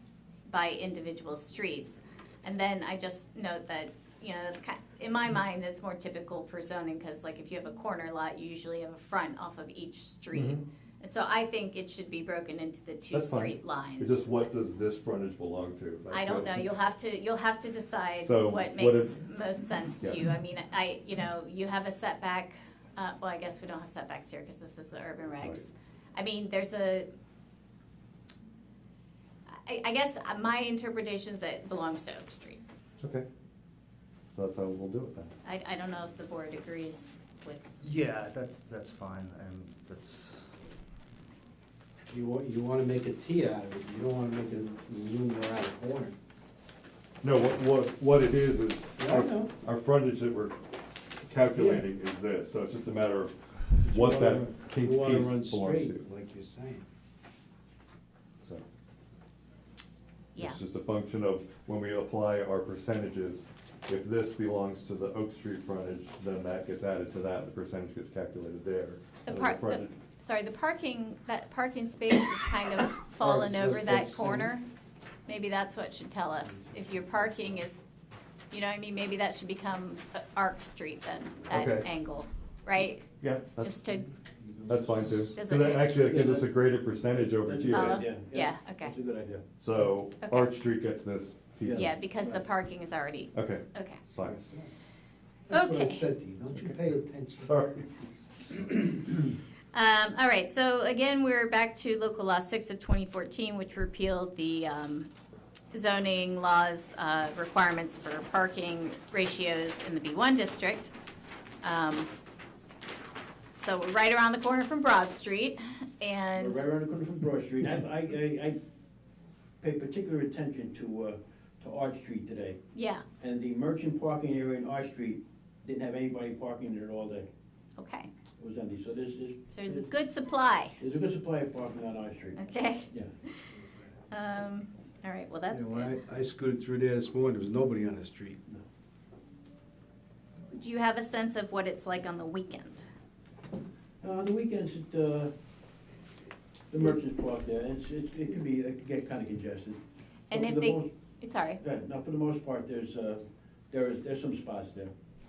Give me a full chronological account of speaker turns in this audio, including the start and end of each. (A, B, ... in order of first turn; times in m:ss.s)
0:00.5-0:14.2 A
0:10.3-0:10.6 B
0:13.1-0:16.7 B
0:16.1-0:27.1 A
0:18.2-0:19.2 B
0:29.5-0:32.6 A
0:34.3-0:35.3 B
0:35.4-0:37.7 A
0:37.8-0:40.5 C
0:42.1-0:46.2 D
0:47.2-0:50.6 B
0:49.0-0:49.3 D
0:51.2-0:56.0 B
0:51.5-0:51.8 D
0:53.8-0:56.8 D
1:00.3-1:00.6 A
1:00.4-1:09.9 B
1:09.2-1:14.6 A
1:13.2-1:14.5 D
1:15.3-1:17.8 A
1:18.5-1:23.1 A
1:21.5-1:21.8 B
1:23.2-1:23.9 B
1:23.6-1:24.1 A
1:24.4-1:25.3 D
1:24.7-1:28.0 B
1:25.3-1:25.9 A
1:26.0-1:26.5 E
1:27.4-1:29.4 E
1:27.7-1:28.9 A
1:29.6-1:31.9 B
1:30.2-1:30.5 A
1:31.6-1:32.4 E
1:31.7-1:34.0 A
1:33.3-1:34.4 B
1:34.1-1:34.7 D
1:35.5-1:36.0 A
1:35.5-1:37.5 D
1:36.5-1:36.8 B
1:37.4-1:37.9 B
1:39.7-1:45.1 A
1:45.7-1:50.9 A
1:51.6-1:52.1 A
1:53.6-1:56.6 A
1:56.4-1:58.6 E
1:59.6-2:02.6 E
2:02.7-2:03.0 A
2:03.2-2:07.3 E
2:07.8-2:08.1 A
2:08.4-2:09.8 E
2:09.5-2:10.8 A
2:10.8-2:12.4 E
2:12.4-2:13.5 A
2:14.1-2:16.0 A
2:15.5-2:18.4 D
2:20.5-2:22.8 A
2:24.0-2:25.3 E
2:26.7-2:29.8 E
2:30.3-2:31.6 A
2:30.3-2:30.9 E
2:31.6-2:34.9 E